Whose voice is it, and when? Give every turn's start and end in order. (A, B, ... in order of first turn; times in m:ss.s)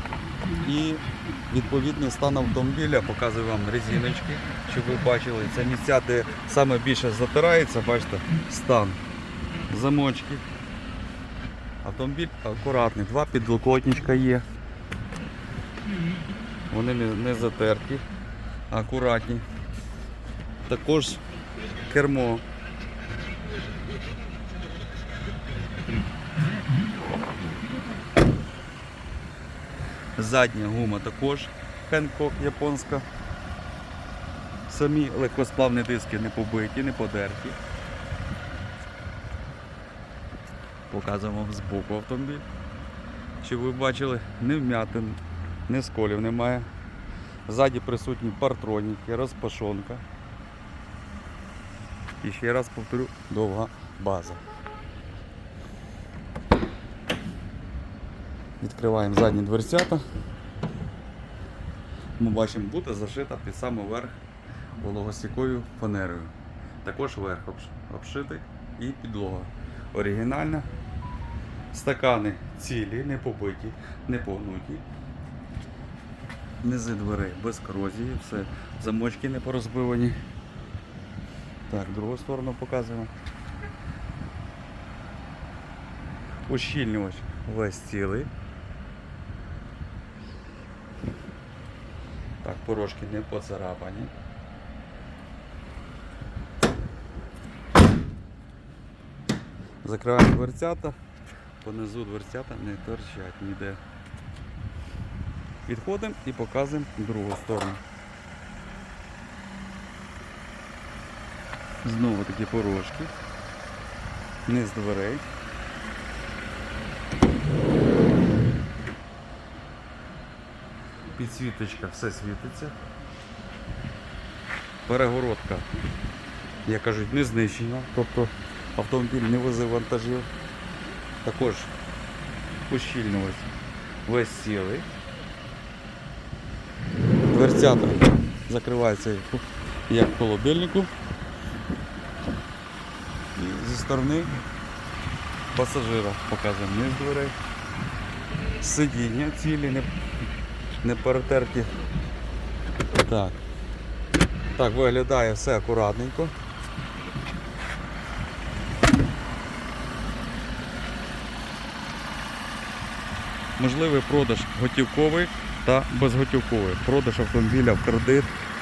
0:00.6-0:09.0 A
0:09.7-0:10.4 A
0:11.8-0:14.4 A
0:16.7-0:18.0 A
0:18.7-0:19.4 A
0:20.7-0:21.2 A
0:21.8-0:22.4 A
0:30.2-0:33.1 A
0:34.7-0:37.6 A
0:40.9-0:42.4 A
0:43.4-0:46.7 A
0:47.5-0:50.0 A
0:52.2-0:54.4 A
0:58.6-1:00.0 A
1:02.2-1:04.2 A
1:04.8-1:10.7 A
1:11.7-1:14.8 A
1:16.6-1:20.2 A
1:21.7-1:23.1 A
1:26.5-1:28.3 A
1:32.4-1:34.1 A
1:39.8-1:41.0 A
1:41.6-1:43.8 A
1:45.7-1:47.8 A
1:51.8-1:53.1 A
1:54.5-1:55.3 A
2:01.2-2:02.8 A
2:04.9-2:05.7 A
2:06.6-2:10.3 A
2:11.2-2:11.7 A
2:12.7-2:13.5 A
2:14.0-2:14.9 A
2:17.3-2:20.9 A
2:23.4-2:24.4 A
2:25.5-2:27.4 A
2:28.6-2:29.9 A
2:30.8-2:31.7 A
2:32.9-2:33.4 A
2:34.6-2:36.3 A
2:43.6-2:48.3 A